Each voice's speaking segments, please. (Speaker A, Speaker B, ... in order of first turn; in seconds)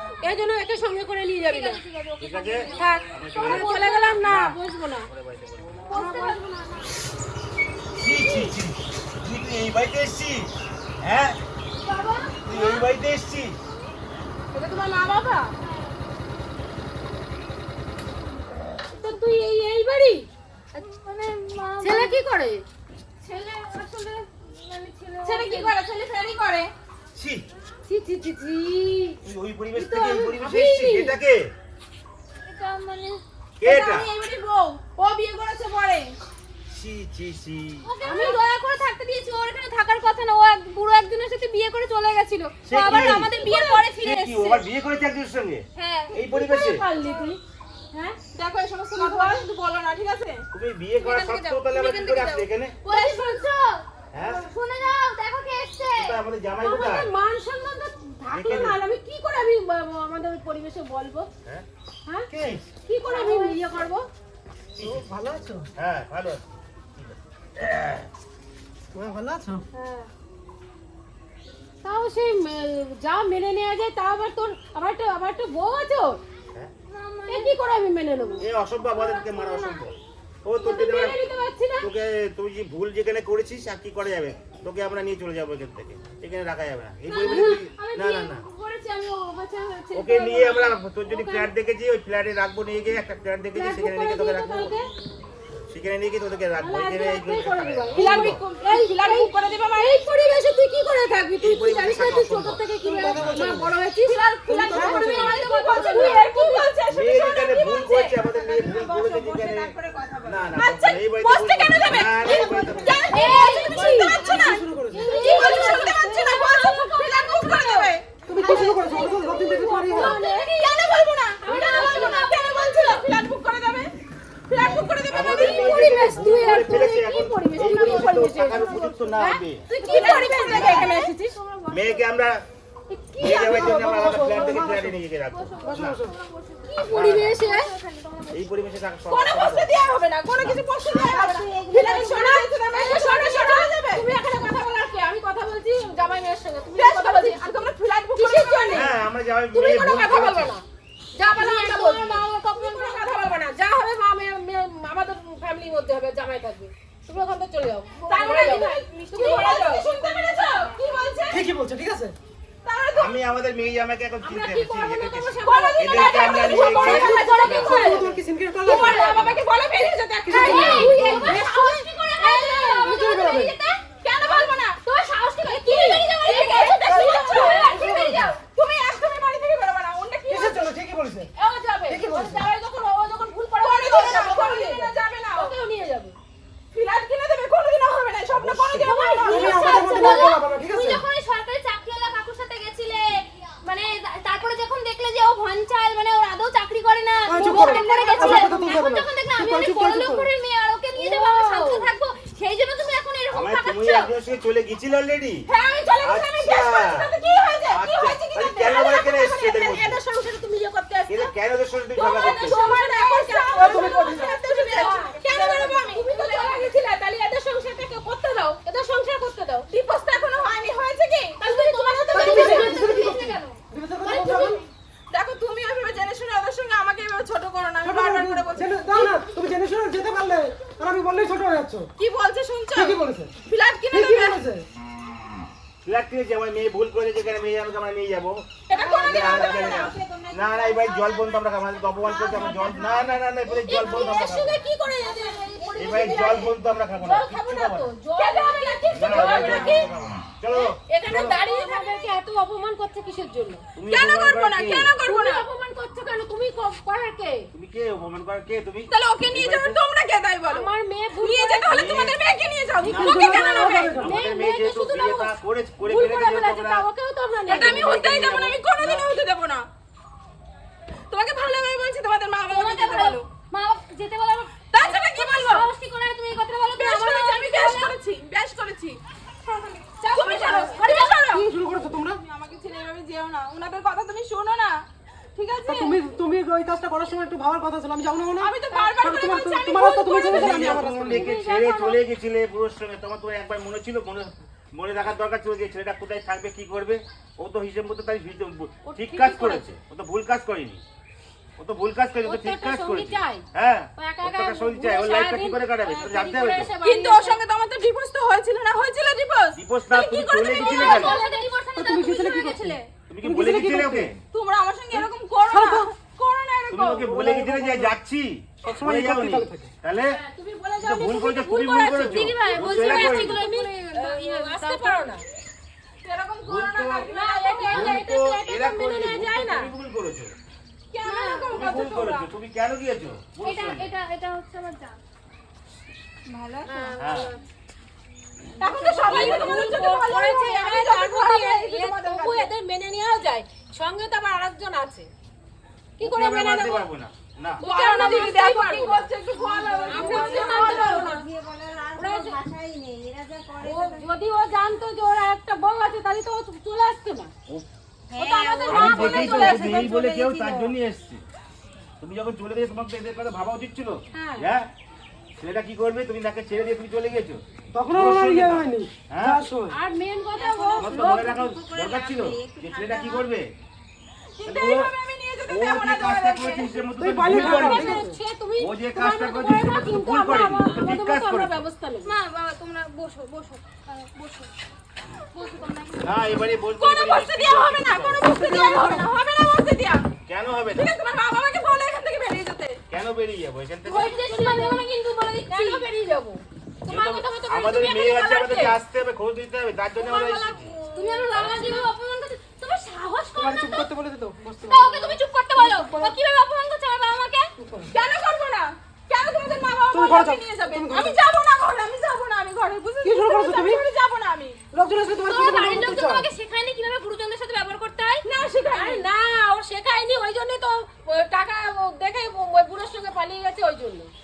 Speaker A: 0.2-1.8, 2.7-5.1, 5.9-6.4, 14.6-15.4, 18.9-20.3, 21.8-22.6, 25.4-25.7, 27.9-29.2, 29.8-31.1, 38.0-38.4, 46.2-47.4, 49.0-49.4, 52.9-53.6, 56.6-61.3, 62.9-64.1, 69.8-70.0, 71.8-76.2, 77.3-78.4, 80.8-81.3, 87.3-87.6, 90.1-91.5, 93.5-94.8, 96.6-106.7, 113.1-114.3, 115.0-116.0, 118.4-120.7, 121.4-123.2, 125.2-131.3, 132.9-133.7, 136.7-137.7, 142.8-148.9, 149.5-150.7, 151.2-159.9, 164.5-167.6, 170.3-171.3, 174.8-178.3, 181.4-186.2, 188.9-189.4, 200.9-201.9, 210.1-211.3, 212.3-212.8, 213.4-213.8, 214.3-217.5, 218.6-219.7, 221.4-223.2, 224.0-224.6, 238.7-239.5, 243.7-249.9, 250.5-253.6, 255.1-257.5, 260.5-261.8, 264.0-268.0, 290.4-292.0, 298.9-299.7, 302.2-303.4, 304.0-307.4, 310.6-311.5, 320.1-325.2, 327.1-329.7, 336.7-337.3, 339.0-345.1, 346.0-346.9, 347.6-349.1, 349.9-351.3, 352.0-352.4, 353.6-357.3, 358.2-359.8, 364.1-364.4, 369.7-371.3, 377.3-382.1, 393.9-394.9, 395.5-398.8, 415.3-416.1, 418.7-424.1
Speaker B: 1.5-2.9, 3.4-4.2, 6.0-6.9, 11.8-12.5, 20.8-22.2, 23.2-25.7, 32.5-33.2, 37.9-44.6, 45.8-46.1, 51.0-53.6, 54.2-56.1, 63.0-63.6, 76.9-77.5, 78.9-79.8, 87.1-89.9, 108.3-110.4, 113.1-117.9, 118.4-119.5, 121.5-123.0, 127.6-129.0, 129.8-132.1, 135.3-136.8, 137.4-138.5, 140.8-142.9, 158.2-160.8, 165.7-166.6, 167.3-167.9, 170.4-174.6, 175.4-178.2, 189.3-204.1, 212.6-213.7, 221.5-223.6, 238.7-241.4, 241.9-244.2, 245.1-246.5, 251.6-252.1, 272.5-277.9, 280.1-281.3, 310.1-312.9, 322.1-325.1, 331.1-331.6, 333.4-335.0, 336.3-337.4, 338.6-339.2, 349.3-354.0, 358.1-360.7, 370.4-373.3, 382.0-384.5, 385.4-386.1, 393.9-395.9, 400.0-403.9, 404.6-407.5, 415.3-418.2
Speaker C: 2.2-4.6, 5.1-5.8, 8.0-11.4, 12.5-13.6, 27.1-27.4, 29.2-31.5, 33.6-34.1, 36.7-37.9, 42.7-46.9, 50.5-52.8, 54.1-54.4, 55.9-57.1, 58.3-58.8, 62.3-62.7, 64.8-65.1, 65.8-68.1, 78.4-79.9, 80.5-81.2, 81.8-88.4, 89.9-94.8, 95.7-98.4, 101.4-102.6, 103.2-103.5, 106.9-113.0, 125.1-129.7, 130.5-130.9, 131.7-132.4, 133.2-136.0, 136.9-137.4, 138.3-139.7, 140.4-140.6, 148.7-150.5, 162.9-167.9, 170.5-171.4, 188.3-189.2, 203.3-205.5, 206.0-207.1, 207.7-210.0, 211.1-212.7, 235.8-238.4, 239.0-244.6, 245.8-247.9, 248.9-251.4, 253.8-254.9, 257.5-259.8, 261.7-262.2, 262.8-266.9, 267.5-269.2, 290.3-300.8, 301.6-306.7, 309.5-311.2, 313.1-314.2, 316.7-320.2, 320.8-323.4, 326.4-327.1, 327.7-330.3, 331.5-333.9, 337.0-337.3, 339.1-339.6, 346.0-347.6, 358.7-361.2, 362.0-364.7, 365.4-369.4, 370.8-373.5, 374.4-374.9, 375.5-378.1, 378.6-381.6, 386.0-388.3, 390.3-390.9, 392.9-394.2, 396.9-400.8, 401.3-401.9
Speaker D: 5.9-6.4, 14.8-15.4, 25.2-26.7, 33.6-36.1, 48.3-50.5, 52.9-53.3, 80.7-81.4, 97.9-100.1, 104.0-108.3, 110.6-118.1, 120.0-123.9, 124.5-125.9, 129.8-131.2, 139.1-144.1, 146.8-148.9, 151.2-153.4, 158.1-161.5, 162.7-163.2, 165.4-168.1, 168.6-172.6, 174.0-174.8, 176.1-177.7, 178.4-180.8, 183.6-185.5, 186.7-190.2, 197.5-198.7, 205.5-209.9, 212.0-216.9, 217.5-218.6, 219.7-221.4, 222.0-222.8, 225.1-229.2, 232.0-234.4, 238.7-239.9, 248.2-249.9, 253.9-255.4, 258.9-264.0, 267.5-269.7, 271.1-273.3, 274.7-275.7, 276.8-281.5, 282.1-284.8, 285.4-286.1, 288.4-290.5, 306.8-311.2, 314.3-317.1, 326.0-328.0, 330.9-332.3, 338.6-342.5, 347.6-351.1, 359.1-359.5, 374.4-376.7, 386.8-390.1, 390.8-392.8, 407.9-414.6, 418.2-419.1
Speaker E: 64.8-65.7, 69.0-69.6, 102.8-103.7, 104.5-106.1, 112.3-113.0, 114.0-115.2, 118.3-120.2, 133.2-134.9, 135.6-136.2, 161.3-162.2, 166.7-169.3, 170.3-171.6, 172.6-173.6, 176.9-178.3, 180.3-181.3, 181.9-182.5, 189.2-191.1, 197.3-200.3, 213.6-214.3, 222.1-224.6, 227.8-231.9, 232.7-233.3, 233.9-234.7, 262.8-264.1, 281.3-282.2, 285.7-291.3, 311.8-314.2, 314.9-315.9, 317.1-317.9, 318.6-319.7, 367.7-369.8, 377.0-378.2, 388.3-389.0, 403.4-406.2, 407.6-407.9, 409.9-411.2, 413.0-413.8, 414.7-416.3